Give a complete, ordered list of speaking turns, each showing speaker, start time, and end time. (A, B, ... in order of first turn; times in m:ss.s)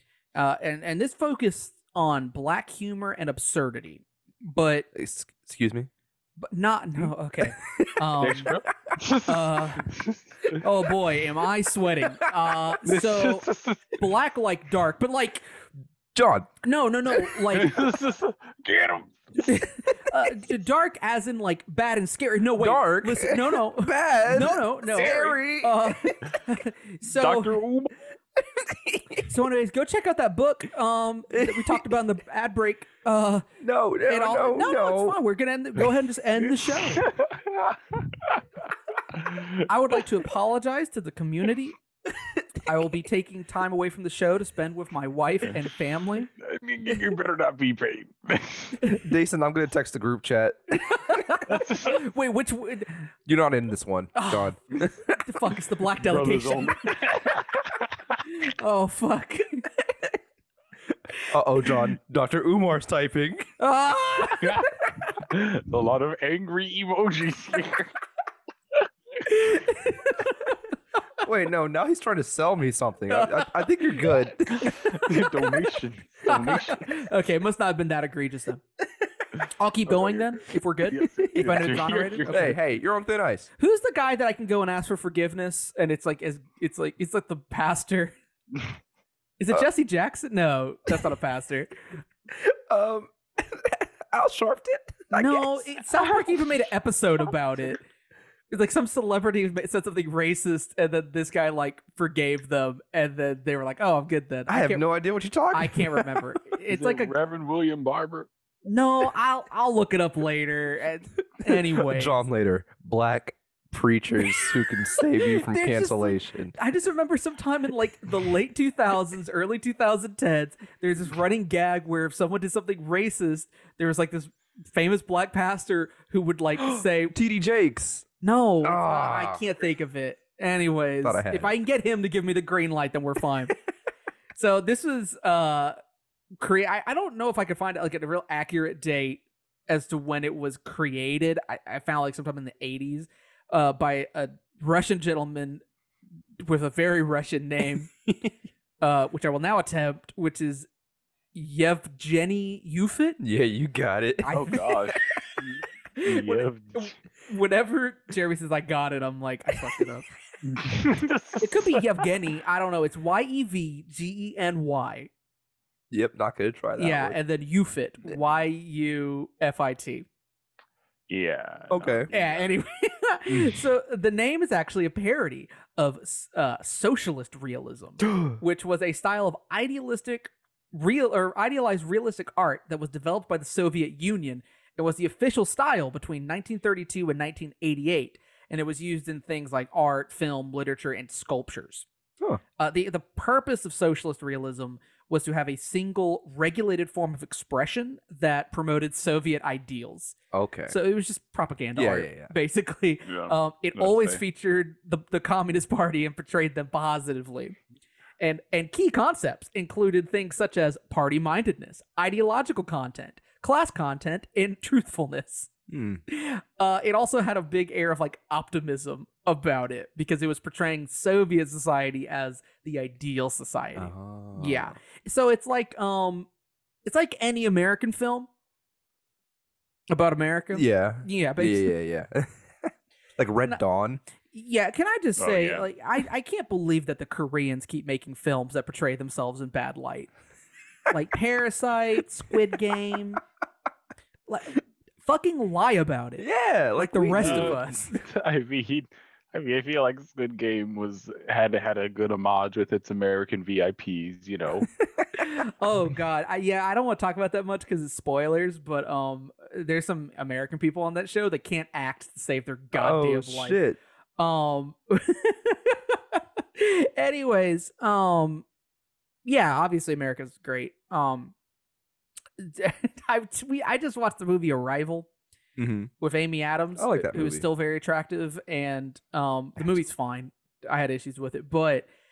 0:00.4-0:04.9 A
0:04.9-0:05.9 B
0:06.4-0:08.5 A
0:07.0-0:07.9 B
0:08.2-0:10.6 C
0:09.3-0:09.9 A
0:10.6-0:15.5 A
0:12.8-0:14.0 C
0:16.2-0:16.5 B
0:16.6-0:17.8 A
0:17.4-0:19.3 C
0:19.4-0:27.6 A
0:22.6-0:26.2 B
0:27.1-0:27.9 C
0:28.4-0:29.3 B
0:29.3-0:33.5 A
0:31.3-0:32.0 B
0:33.6-0:35.2 B
0:34.1-0:37.1 A
0:36.8-0:38.4 C
0:39.1-0:39.6 C
0:39.7-0:41.8 A
0:42.6-0:46.3 A
0:46.4-0:48.8 C
0:49.0-0:51.2 B
0:50.8-0:53.0 A
0:51.5-0:52.1 C
0:53.3-0:55.2 B
0:54.1-0:56.9 A
0:56.0-0:57.9 C
0:58.3-0:59.7 A
1:01.3-1:03.5 B
1:03.6-1:04.7 A
1:04.4-1:07.9 C
1:09.2-1:10.6 A
1:11.2-1:14.8 B
1:13.1-1:15.3 A
1:14.6-1:16.9 C
1:16.3-1:18.6 A
1:19.4-1:22.6 A
1:19.9-1:22.6 C
1:21.0-1:23.5 B
1:23.6-1:28.2 A
1:29.4-1:31.8 A
1:32.3-1:36.6 B
1:35.1-1:37.8 A
1:38.5-1:44.8 A
1:44.5-1:46.3 B
1:45.5-1:47.1 A
1:46.7-1:48.3 C
1:48.7-1:52.1 A
1:51.4-1:56.6 B
1:54.3-1:54.5 A
1:55.1-2:07.2 A
2:06.6-2:08.1 B
2:08.2-2:13.6 A
2:08.6-2:09.4 B
2:11.0-2:11.5 B
2:14.4-2:15.8 A
2:16.4-2:25.6 A
2:26.4-2:27.9 A
2:28.8-2:30.7 A
2:31.3-2:33.2 A
2:33.2-2:34.4 B
2:34.2-2:34.7 A
2:34.3-2:36.9 C
2:36.0-2:40.1 A
2:40.5-2:42.0 C
2:41.4-2:45.1 A
2:45.9-2:47.2 B
2:46.8-2:50.1 A
2:51.1-2:52.4 C
2:51.7-2:52.1 B
2:52.1-3:11.9 A
2:53.3-2:53.6 B
2:58.0-2:58.4 B
3:12.6-3:20.2 A
3:20.3-3:20.8 B
3:20.7-3:27.6 A
3:21.8-3:22.3 B
3:23.1-3:24.2 C
3:28.2-3:35.5 A
3:35.7-3:36.0 B
3:36.1-3:46.3 A
3:43.8-3:44.7 B
3:46.8-3:48.3 A
3:49.9-3:51.7 A
3:50.5-3:54.0 B
3:54.3-4:00.1 A
3:55.2-3:55.7 C
4:00.9-4:03.2 A
4:04.3-4:06.2 A
4:06.2-4:07.6 B
4:06.8-4:08.0 A
4:07.2-4:14.7 C
4:14.8-4:15.1 B
4:15.2-4:23.6 A
4:22.7-4:23.8 B
4:24.2-4:28.4 A
4:29.2-4:31.3 A
4:32.4-4:35.1 A
4:35.6-4:35.9 B
4:36.0-4:41.9 A
4:36.8-4:37.4 B